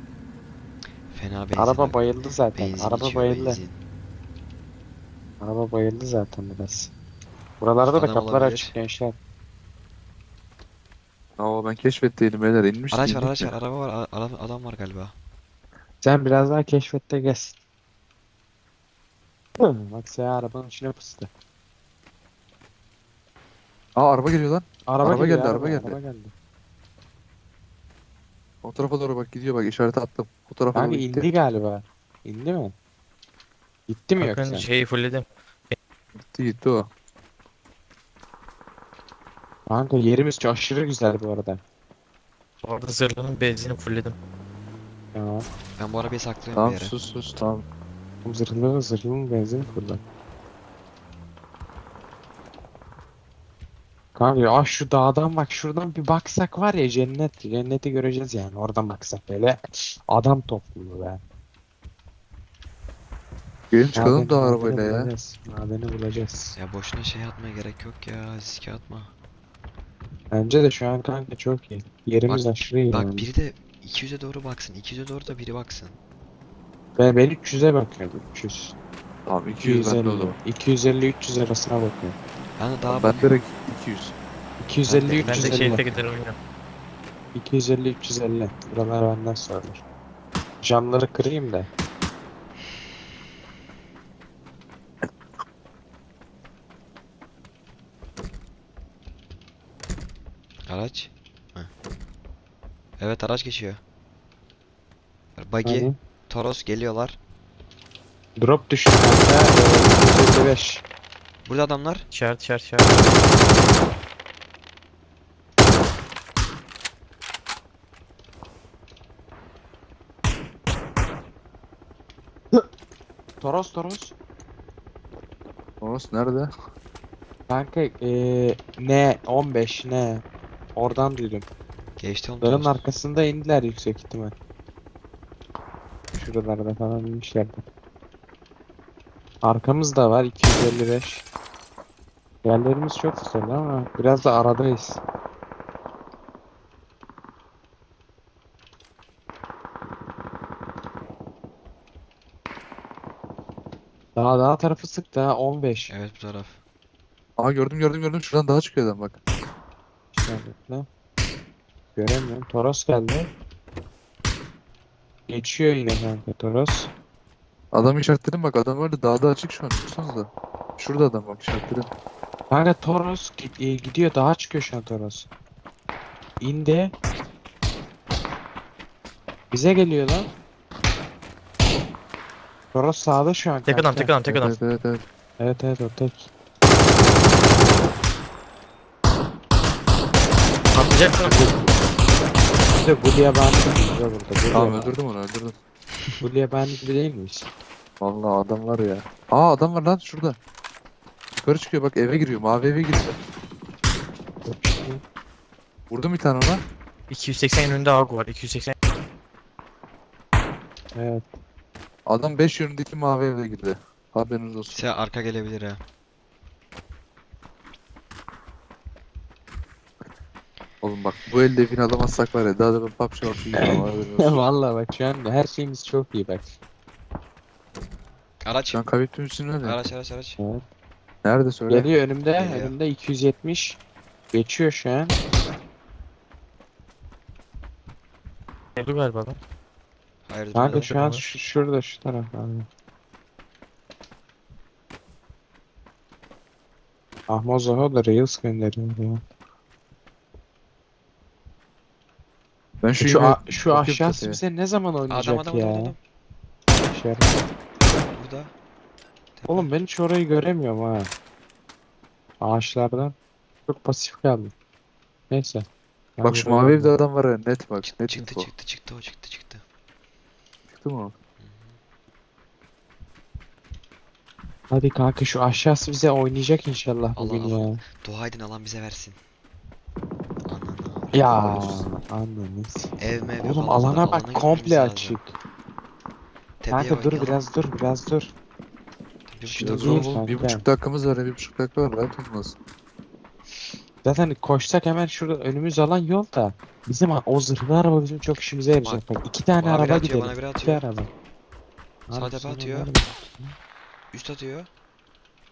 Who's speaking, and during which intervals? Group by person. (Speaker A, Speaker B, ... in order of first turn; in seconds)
Speaker A: 1.1-2.0, 2.5-3.8, 7.9-8.7, 12.9-15.1, 45.8-46.9, 66.5-69.1, 72.3-76.0, 82.6-83.4, 84.9-86.1, 100.7-101.7, 103.0-103.8, 105.4-107.2, 111.5-112.1, 132.0-132.8, 155.9-156.6, 214.7-215.8, 228.4-228.8, 229.6-230.4, 232.3-232.8, 240.3-241.0, 255.1-256.0, 258.1-258.5, 259.4-259.7, 267.8-269.6, 271.4-271.8, 277.2-279.2, 280.5-281.9, 283.0-285.2, 286.6-287.5, 289.3-290.1, 299.6-300.9, 302.1-302.9, 304.1-304.7
Speaker B: 1.6-3.6, 5.4-6.9, 7.6-9.2, 16.0-17.6, 19.6-21.3, 24.9-26.3, 30.7-32.7, 33.9-34.7, 39.7-41.6, 45.1-45.5, 48.2-50.0, 54.1-61.2, 64.0-66.6, 70.3-73.3, 77.0-78.8, 79.6-82.2, 84.6-85.8, 87.3-89.8, 90.6-91.7, 105.6-106.0, 108.4-110.8, 123.4-124.2, 127.5-130.2, 130.8-131.5, 132.4-134.3, 136.2-137.7, 139.4-141.2, 142.4-145.0, 154.2-155.9, 160.1-160.9, 162.0-163.3, 165.3-166.9, 172.5-175.3, 176.4-176.9, 179.5-180.3, 182.7-184.2, 185.4-186.3, 187.3-187.8, 190.7-191.8, 192.7-194.9, 196.2-197.5, 204.4-205.0, 210.9-211.3, 223.6-226.6, 230.4-230.7, 231.7-233.8, 234.3-235.2, 240.6-242.7, 247.3-249.2, 253.0-255.9, 256.9-257.5, 259.5-261.1, 262.4-263.1, 263.7-264.5, 265.3-265.7, 266.2-266.9, 274.7-277.8, 281.1-285.3, 286.7-288.3, 289.6-290.6, 294.0-301.1, 302.1-303.6
Speaker C: 11.4-13.5, 24.0-26.0, 28.6-31.3, 36.2-36.9, 46.6-47.6, 63.7-65.1, 79.3-80.4, 82.9-84.2, 125.8-126.5, 157.4-159.2, 167.7-171.9, 184.3-185.0, 194.5-195.6, 198.0-200.4, 201.4-203.2, 205.9-206.6, 212.1-214.8, 220.8-224.4, 228.7-229.8, 231.2-231.9, 252.8-254.4, 266.2-268.5, 270.7-271.1, 289.6-292.6
Speaker D: 34.2-35.8, 42.6-44.2, 85.2-86.4, 112.1-113.2, 183.7-184.6, 190.8-191.4, 207.1-208.7, 238.8-239.4, 240.8-241.3